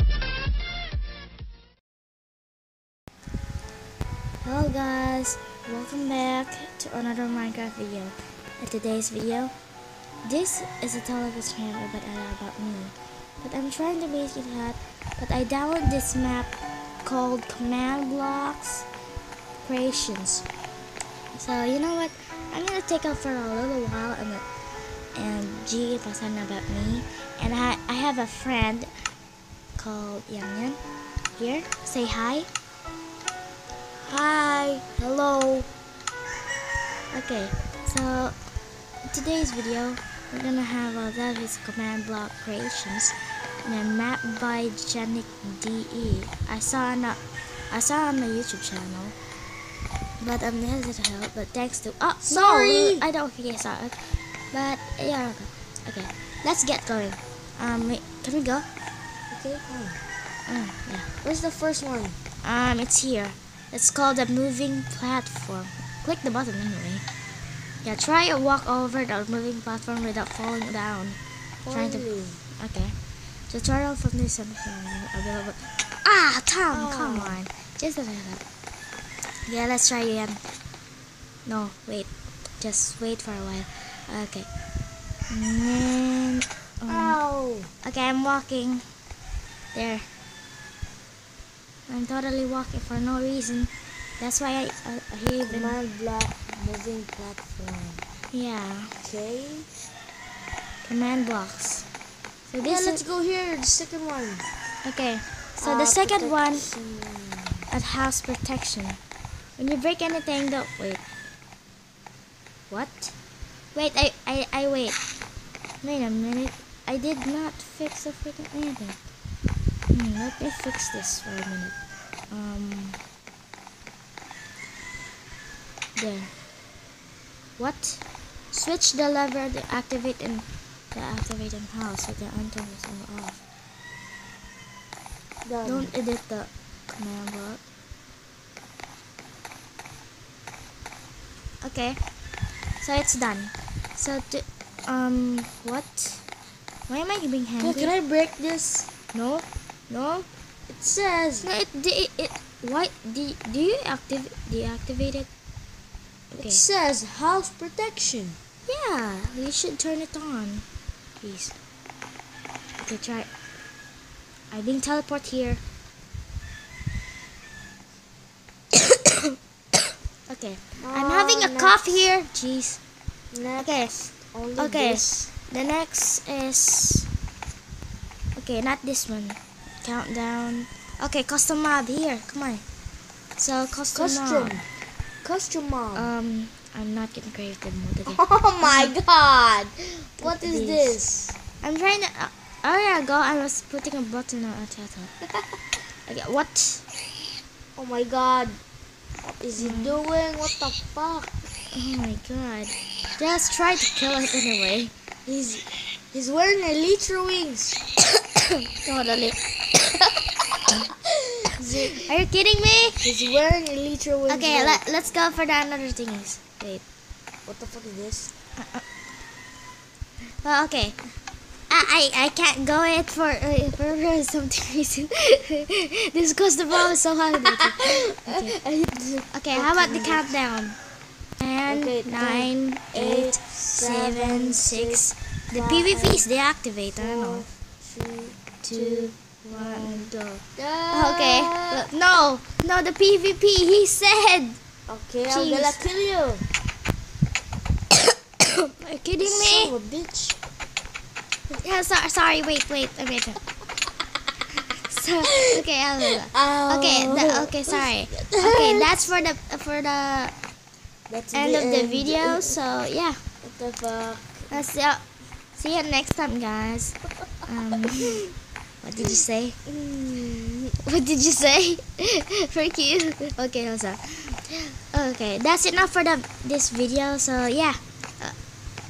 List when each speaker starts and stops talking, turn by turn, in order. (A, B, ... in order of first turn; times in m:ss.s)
0:04.4-0:09.5 A
0:10.2-0:18.9 A
0:19.6-0:20.4 A
0:21.3-0:24.4 A
0:25.1-0:28.9 A
0:29.8-0:30.8 A
0:31.4-0:32.5 A
0:34.0-0:35.0 B
0:35.0-0:35.6 A
0:37.1-0:38.3 A
0:39.1-0:49.1 A
0:50.2-0:58.7 A
0:52.2-0:53.0 B
0:59.3-1:00.0 B
1:00.5-1:01.1 A
1:01.2-1:02.2 B
1:02.4-1:07.0 A
1:07.8-1:11.2 A
1:11.6-1:12.4 B
1:11.7-1:13.0 A
1:13.5-1:18.4 A
1:16.7-1:17.4 B
1:19.4-1:20.4 A
1:21.4-1:24.5 A
1:25.3-1:27.2 A
1:26.9-1:27.7 B
1:27.8-1:28.8 A
1:29.7-1:30.1 A
1:31.9-1:35.7 A
1:35.4-1:38.0 B
1:38.3-1:38.9 A
1:39.0-1:39.8 B
1:40.8-1:41.9 A
1:42.5-1:43.0 A
1:42.6-1:44.4 B
1:44.8-1:46.7 A
1:45.6-1:47.6 B
1:47.7-1:49.0 A
1:49.6-1:51.0 A
1:52.7-1:53.2 A
1:53.7-1:55.0 A
1:55.8-1:59.0 A
1:59.9-2:01.8 A
2:02.3-2:03.0 A
2:05.9-2:06.3 A
2:07.6-2:13.4 A
2:15.4-2:15.9 B
2:15.6-2:17.6 A
2:21.6-2:22.0 A
2:22.8-2:26.3 A
2:26.9-2:27.9 A
2:27.6-2:28.9 B
2:29.1-2:30.3 A
2:30.7-2:31.5 B
2:31.4-2:35.3 A
2:36.3-2:36.6 A
2:36.4-2:38.4 B
2:38.7-2:40.6 A
2:41.2-2:41.5 A
2:42.8-2:43.3 A
2:44.5-2:45.6 A
2:48.7-2:49.3 A
2:50.3-2:52.8 A
2:50.8-2:51.8 B
2:53.3-2:55.3 B
2:53.6-2:53.9 A
2:54.6-2:57.1 A
2:58.4-3:02.6 A
3:03.4-3:04.6 A
3:03.9-3:04.7 B
3:05.2-3:06.1 B
3:05.9-3:08.9 A
3:08.1-3:11.4 B
3:10.2-3:11.0 A
3:11.6-3:15.1 A
3:16.0-3:16.8 A
3:17.8-3:18.6 B
3:19.2-3:21.4 B
3:19.6-3:20.0 A
3:21.7-3:24.9 A
3:25.2-3:27.8 B
3:28.7-3:29.8 A
3:31.5-3:32.0 B
3:31.9-3:33.1 A
3:33.0-3:34.8 B
3:34.3-3:36.8 A
3:37.4-3:38.3 B
3:38.6-3:38.8 A
3:40.4-3:41.0 A
3:41.7-3:48.6 A
3:47.5-3:50.4 B
3:49.3-3:50.8 A
3:51.4-3:57.4 A
3:51.7-3:56.2 B
3:57.0-4:01.8 B
3:58.6-4:04.6 A
4:04.9-4:06.5 B
4:05.3-4:05.8 A
4:08.4-4:09.7 A
4:09.2-4:10.4 B
4:11.6-4:13.4 A
4:14.8-4:20.3 A
4:16.3-4:19.1 B
4:21.1-4:22.6 B
4:21.3-4:23.2 A
4:23.4-4:24.6 B
4:24.5-4:25.0 A
4:25.5-4:29.6 A
4:29.6-4:30.7 B
4:30.8-4:38.4 A